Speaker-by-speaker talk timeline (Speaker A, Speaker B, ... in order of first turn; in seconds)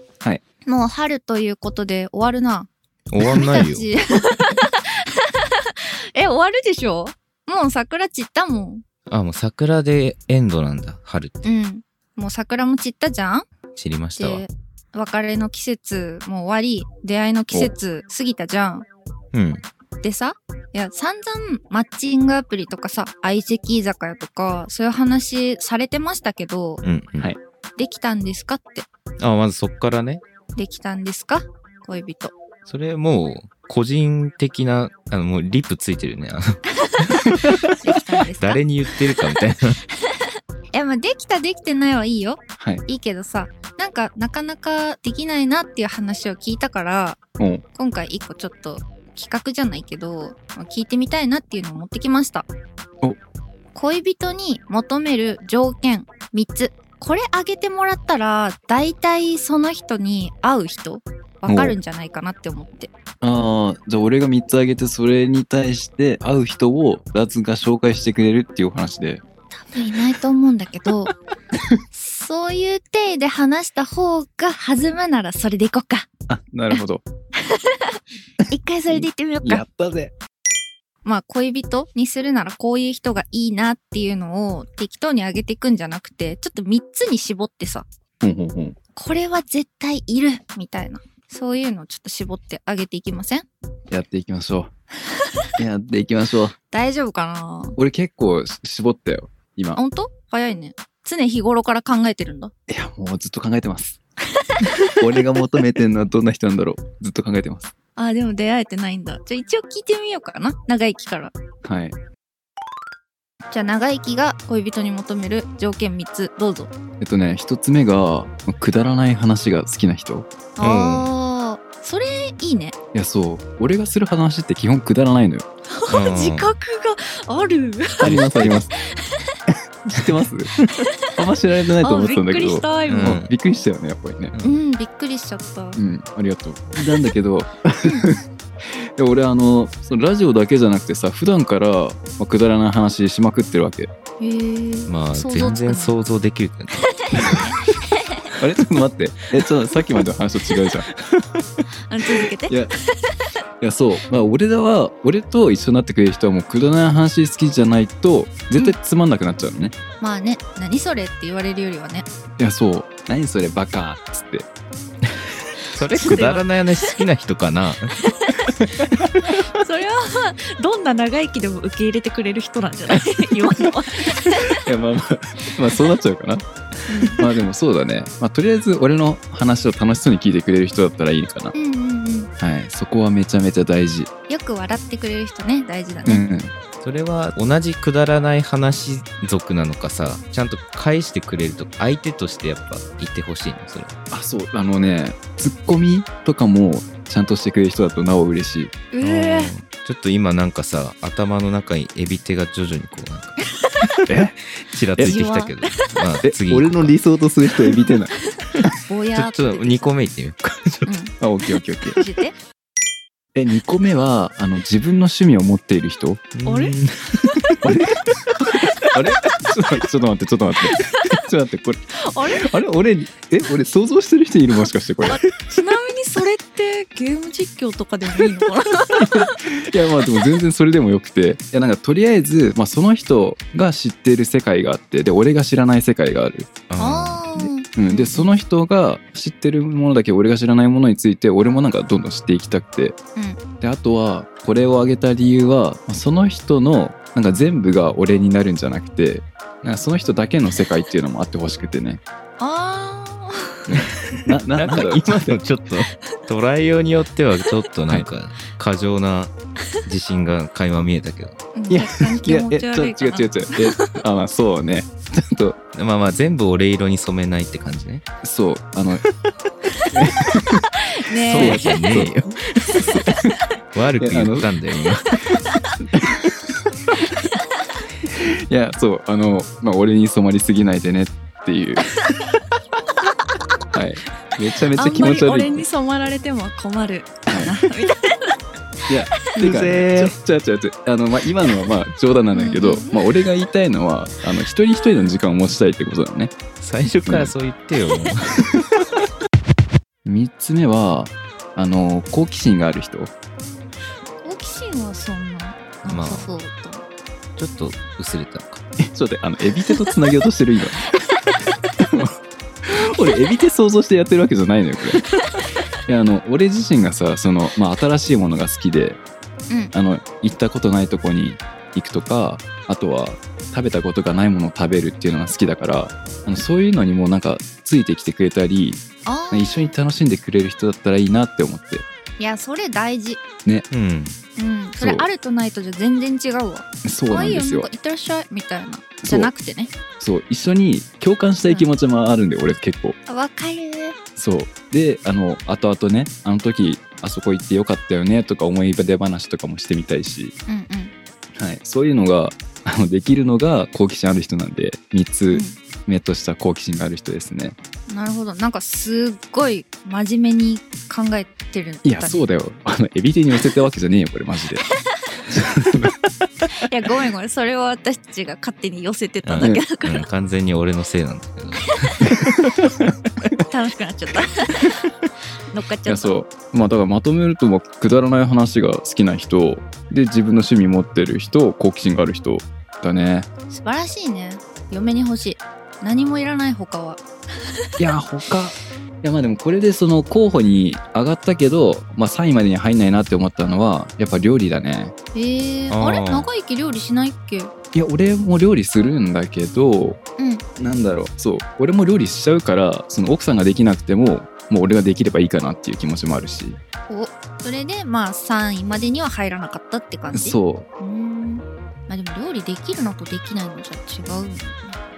Speaker A: 0.7-2.7, 3.2-8.8, 11.4-13.5, 14.2-18.9, 20.0-26.8, 27.8-28.9, 30.6-32.4, 36.8-38.6, 40.0-47.2, 47.8-52.5, 53.8-62.9, 69.5-71.1, 71.9-76.1, 77.4-79.7, 81.0-87.9, 89.0-93.5, 96.7-97.8, 99.8-102.5, 104.4-105.0, 108.0-111.3, 113.5-116.7, 120.6-122.8, 125.7-128.2, 128.7-129.4, 130.8-131.1, 131.8-133.2, 134.4-135.8, 144.2-145.9, 147.0-148.3, 151.9-153.2, 160.0-162.1, 165.8-166.9, 168.1-168.5, 169.2-174.6, 176.9-177.3, 181.5-182.3, 184.3-186.3, 198.9-199.5, 203.5-203.9, 205.0-205.9, 208.3-209.9, 210.9-211.1, 211.8-212.4, 216.4-216.8, 218.8-219.4, 220.7-221.2, 222.0-222.5, 225.1-229.4, 236.8-238.2, 252.4-253.8, 261.5-264.0, 270.8-271.8, 272.7-273.0, 275.1-275.7, 277.1-277.4, 284.8-288.4, 292.3-293.0, 304.2-306.9, 329.1-329.7, 332.2-333.2, 334.4-339.7, 343.1-344.0, 350.5-350.9, 355.3-355.6, 357.9-362.2, 366.6-370.1, 373.4-374.9, 375.5-376.2, 383.5-387.0, 395.1-397.5, 400.2-400.4, 406.9-414.8
Speaker B: 3.1-3.9, 9.1-11.4, 13.8-14.4, 19.3-19.6, 26.8-27.3, 29.2-30.2, 32.7-37.7, 38.4-39.8, 120.6-121.1, 125.9-126.5, 128.0-128.6, 132.9-133.3, 134.3-134.6, 144.9-147.3, 165.7-168.0, 186.8-194.0, 199.0-203.4, 204.6-207.0, 208.6-210.9, 216.3-217.4, 236.7-237.2, 254.1-261.4, 265.8-268.0, 271.3-273.0, 273.7-275.3, 289.3-290.1, 296.6-298.6, 305.9-306.3, 307.4-308.6, 333.7-334.2, 369.2-372.2, 395.7-396.3
Speaker C: 42.6-42.8, 47.4-47.6, 61.5-61.8, 63.2-69.2, 76.3-77.0, 78.9-80.1, 88.2-88.8, 93.9-94.7, 95.6-96.5, 97.8-99.8, 102.7-104.0, 104.9-107.7, 111.6-112.0, 117.0-120.3, 122.9-125.5, 128.0-128.7, 129.8-130.5, 131.2-134.4, 135.8-138.2, 139.0-143.9, 148.4-150.9, 153.6-159.7, 162.4-164.5, 174.5-176.4, 177.0-181.5, 182.4-184.1, 186.1-186.5, 194.1-198.7, 204.1-204.4, 205.0-205.2, 206.2-208.1, 211.2-212.0, 213.3-216.3, 217.6-225.2, 229.0-236.5, 237.4-243.0, 243.6-252.0, 253.7-255.4, 261.7-265.6, 268.2-269.1, 269.9-270.7, 271.2-272.1, 272.8-273.3, 274.0-274.5, 275.8-276.6, 278.1-281.9, 283.7-285.6, 287.3-287.5, 288.9-296.3, 297.1-297.3, 298.5-298.8, 300.1-303.1, 308.8-310.9, 311.8-315.0, 315.9-319.0, 319.7-331.9, 334.8-335.1, 336.8-337.7, 339.0-339.3, 340.0-343.0, 344.2-350.4, 351.4-357.6, 361.8-364.7, 365.2-366.0, 372.1-372.9, 375.9-383.3, 387.8-394.9, 397.7-400.0, 400.6-406.6, 410.1-410.7